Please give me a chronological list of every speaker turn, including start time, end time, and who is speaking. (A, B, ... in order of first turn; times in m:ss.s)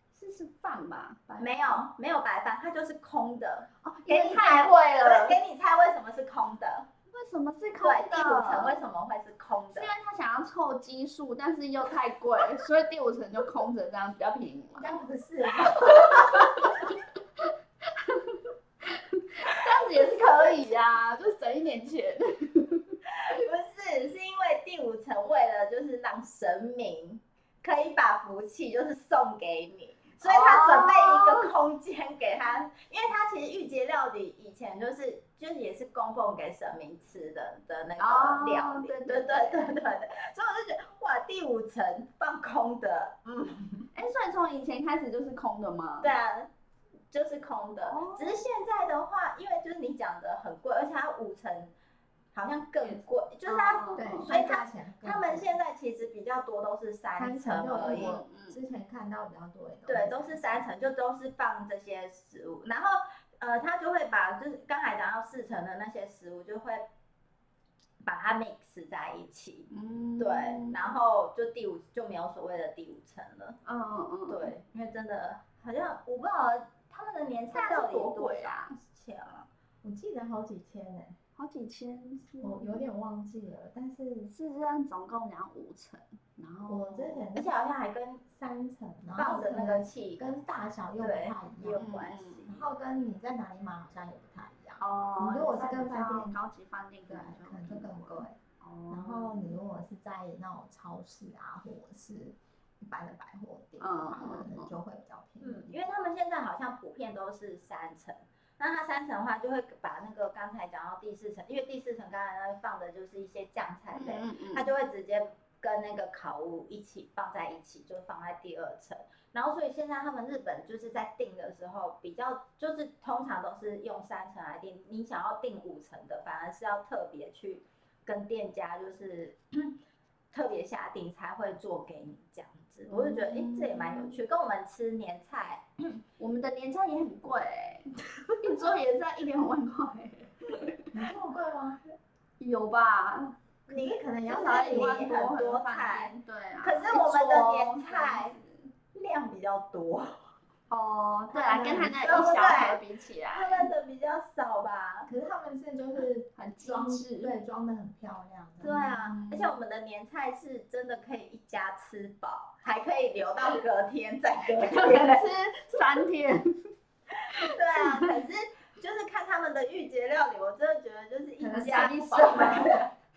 0:00.1-0:01.8 A
0:01.4-0:06.9 B
0:03.8-0:05.4 A
0:07.1-0:08.8 A
0:07.8-0:09.9 B
0:09.7-0:15.0 A
0:14.8-0:16.7 C
0:15.6-0:16.0 B
0:15.7-0:23.4 A
0:20.0-0:20.4 B
0:23.2-0:43.9 B
0:30.2-0:31.5 A
0:38.0-0:39.6 A
0:44.0-0:46.1 A
0:46.0-0:46.5 B
0:47.1-0:51.7 B
0:47.8-0:48.4 A
0:52.3-0:58.2 B
0:52.8-0:54.3 A
0:54.0-0:55.6 C
0:57.2-1:00.4 C
0:57.7-0:58.6 A
0:59.9-1:06.9 B
1:08.0-1:13.6 B
1:09.7-1:10.8 A
1:13.6-1:14.5 A
1:14.3-1:19.5 B
1:17.5-1:18.8 A
1:19.8-1:21.2 C
1:21.4-1:22.8 A
1:22.4-1:24.3 C
1:24.3-1:27.3 A
1:26.7-1:27.5 C
1:27.4-1:28.3 B
1:28.3-1:31.9 C
1:29.2-1:30.2 B
1:31.0-1:32.6 B
1:31.8-1:32.5 A
1:32.5-1:36.4 C
1:34.8-1:39.6 A
1:37.1-1:38.4 C
1:38.9-1:45.8 C
1:43.8-1:44.8 A
1:45.4-2:09.8 B
1:53.9-1:54.7 A
2:10.3-2:16.0 B
2:12.9-2:14.2 A
2:16.2-2:20.9 A
2:20.9-2:21.9 C
2:22.4-2:23.4 A
2:23.7-2:25.1 C
2:23.7-2:28.4 B
2:24.3-2:28.7 A
2:28.9-2:30.3 B
2:30.7-2:33.7 A
2:31.3-2:32.4 C
2:31.8-2:35.1 B
2:35.1-2:39.0 C
2:36.4-2:37.4 A
2:38.6-2:45.8 B
2:39.0-2:39.5 A
2:44.6-2:46.7 A
2:47.3-2:52.9 B
2:47.3-2:48.2 A
2:51.4-2:52.8 C
2:51.6-2:52.6 A